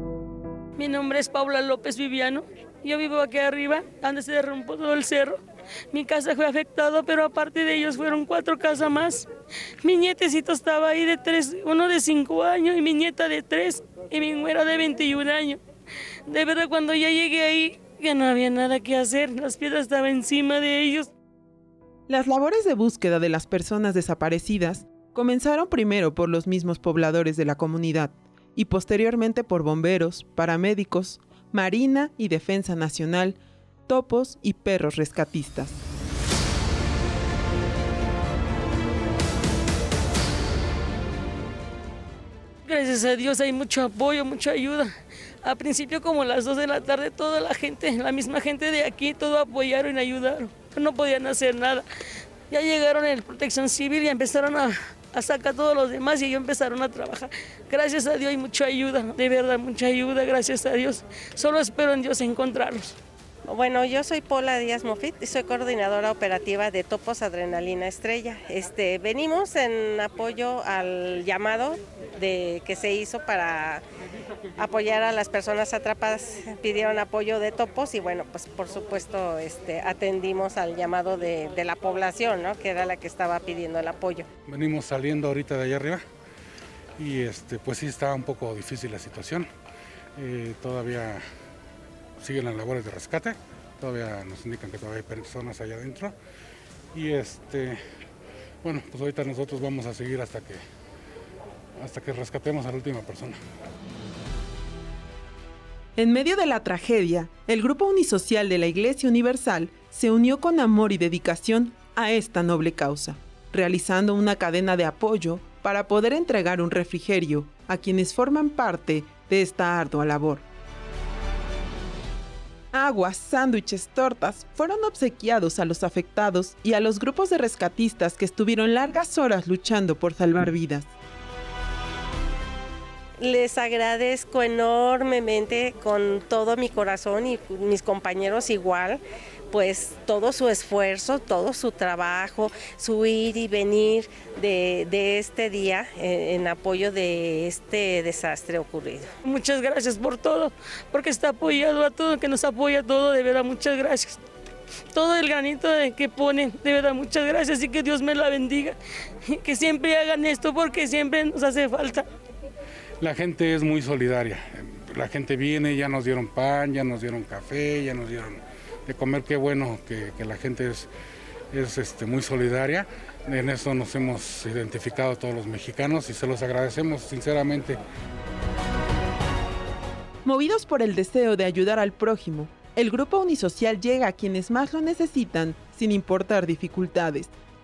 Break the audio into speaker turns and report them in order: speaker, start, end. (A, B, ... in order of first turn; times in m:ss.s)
0:00.8-0:09.3 A
0:09.8-0:15.6 A
0:16.3-0:21.1 A
0:22.1-0:35.8 B
0:42.6-0:44.9 A
0:45.4-0:51.9 A
0:52.5-1:02.9 A
1:03.5-1:13.8 C
1:14.6-1:24.2 C
1:24.5-1:26.0 D
1:27.0-1:29.4 D
1:30.2-1:31.2 D
1:32.2-1:36.1 D
1:36.9-1:37.7 D
1:38.6-1:40.6 D
1:41.9-1:43.3 D
1:46.0-2:00.4 B
2:02.7-2:10.9 B
2:13.2-2:29.1 C
2:29.2-2:34.2 A
2:34.9-2:42.0 A
2:43.0-2:50.9 D
2:51.5-2:57.8 D
3:00.2-3:07.3 B